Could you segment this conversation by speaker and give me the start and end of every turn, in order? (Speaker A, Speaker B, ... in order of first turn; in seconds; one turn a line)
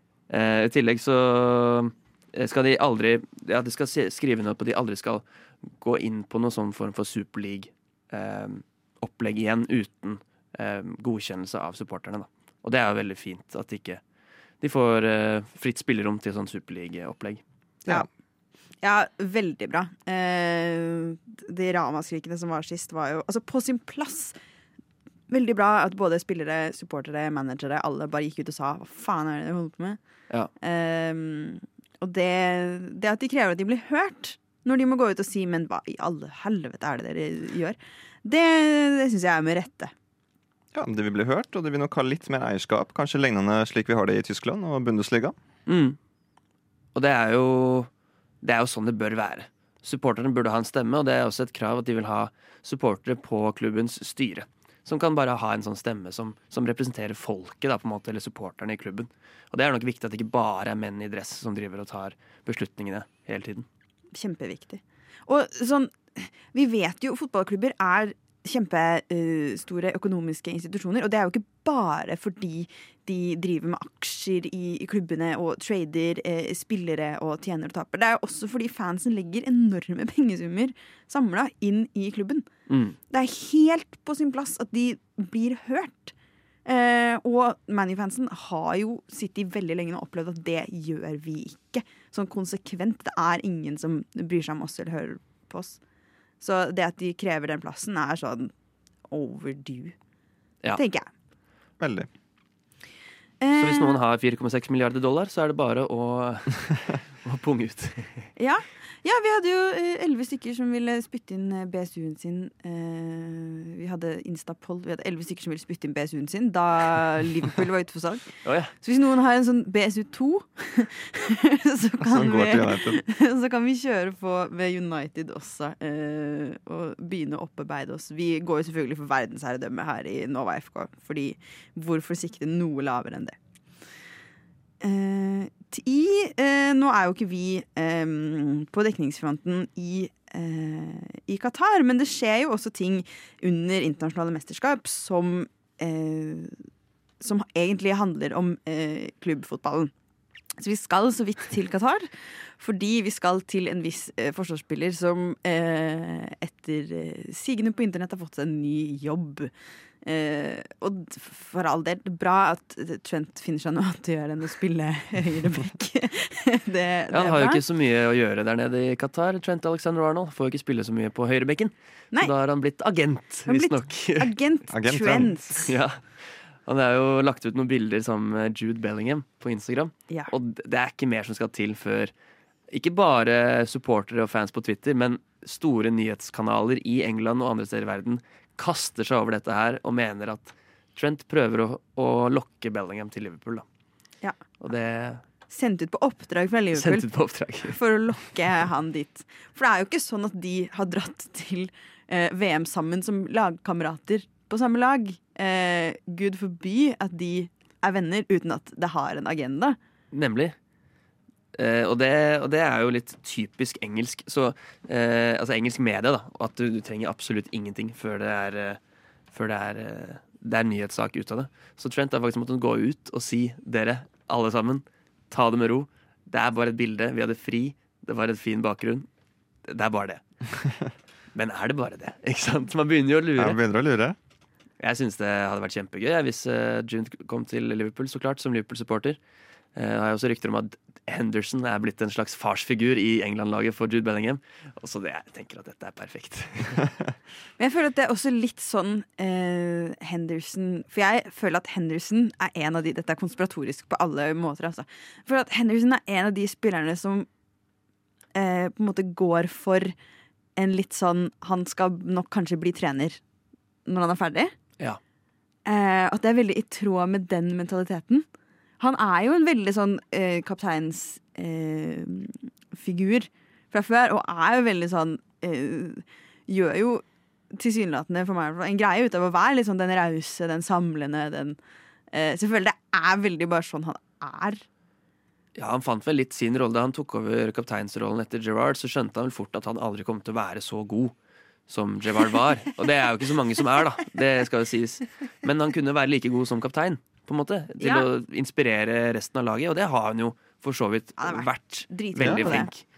Speaker A: 0.3-5.2
Speaker A: 5.8-14.0
Speaker A: 14.6-17.4
Speaker B: 18.8-24.4
Speaker B: 25.3-30.0
Speaker B: 30.6-39.9
Speaker C: 40.7-45.4
Speaker A: 45.7-46.0
Speaker A: 47.0-47.9
Speaker A: 48.4-63.7
Speaker B: 64.1-82.5
Speaker A: 82.7-83.0
Speaker B: 83.1-86.1
Speaker B: 86.7-95.8
Speaker B: 96.4-98.5
Speaker B: 99.1-100.0
Speaker B: 100.8-101.1
Speaker C: 101.8-102.1
Speaker B: 103.4-104.0
Speaker A: 103.6-108.3
Speaker B: 108.4-133.4
Speaker A: 118.4-118.7
Speaker C: 122.0-123.0
Speaker B: 134.8-146.6
Speaker B: 147.2-149.9
Speaker B: 150.6-159.5
Speaker B: 160.0-167.6
Speaker A: 167.1-174.3
Speaker B: 173.5-175.7
Speaker C: 174.7-175.4
Speaker A: 175.6-182.1
Speaker A: 182.7-193.7
Speaker A: 194.6-195.2
Speaker B: 195.5-197.1
Speaker A: 196.7-197.8
Speaker B: 197.6-209.8
Speaker A: 210.1-210.6
Speaker A: 211.6-218.8
Speaker A: 219.3-229.1
Speaker A: 229.7-230.2
Speaker A: 231.3-233.6
Speaker C: 233.4-234.2
Speaker A: 234.8-239.2
Speaker A: 239.8-247.0
Speaker B: 247.6-257.3
Speaker B: 258.4-259.9
Speaker B: 260.6-263.2
Speaker B: 263.9-264.5
Speaker B: 265.7-268.3
Speaker B: 268.8-281.6
Speaker B: 282.1-284.6
Speaker A: 285.6-291.1
Speaker A: 291.7-302.8
Speaker B: 297.8-298.1
Speaker B: 301.2-302.7
Speaker C: 302.2-302.6